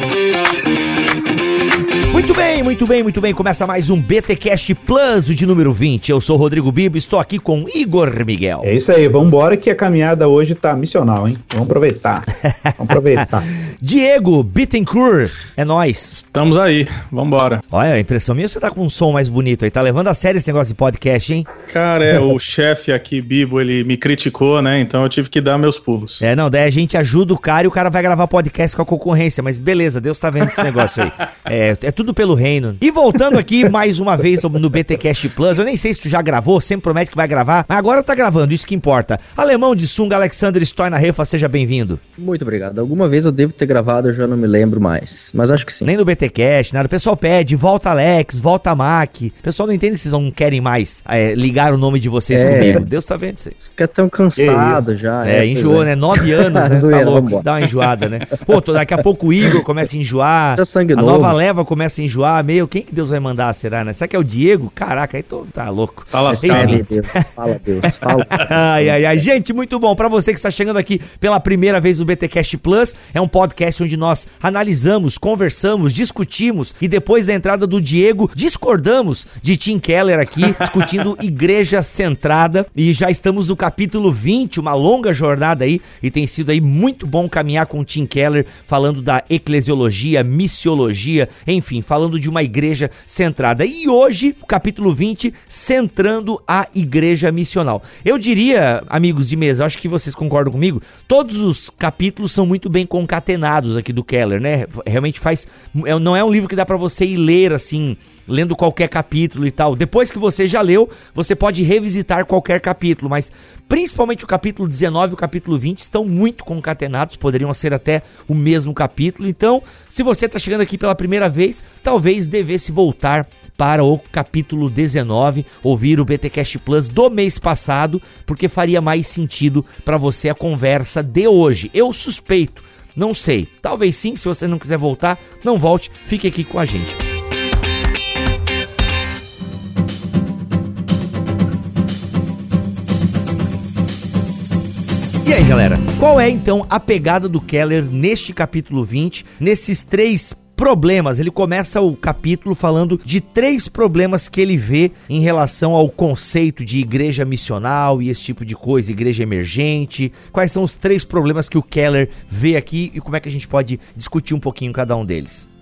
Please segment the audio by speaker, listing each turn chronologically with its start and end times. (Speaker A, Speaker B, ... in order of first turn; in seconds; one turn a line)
Speaker A: 2.1-8.7
Speaker B: 8.6-12.3
Speaker A: 12.4-16.2
Speaker B: 12.8-13.5
Speaker C: 16.1-17.6
Speaker A: 17.7-21.5
Speaker C: 21.7-26.2
Speaker A: 26.2-42.0
Speaker D: 42.2-45.9
Speaker A: 45.8-53.5
Speaker D: 52.3-52.8
Speaker B: 52.5-52.8
Speaker D: 53.6-57.5
Speaker B: 54.4-54.9
Speaker A: 55.2-67.2
Speaker D: 60.6-61.4
Speaker C: 66.1-66.8
Speaker D: 66.3-69.2
Speaker A: 67.8-137.0
Speaker A: 145.2-165.5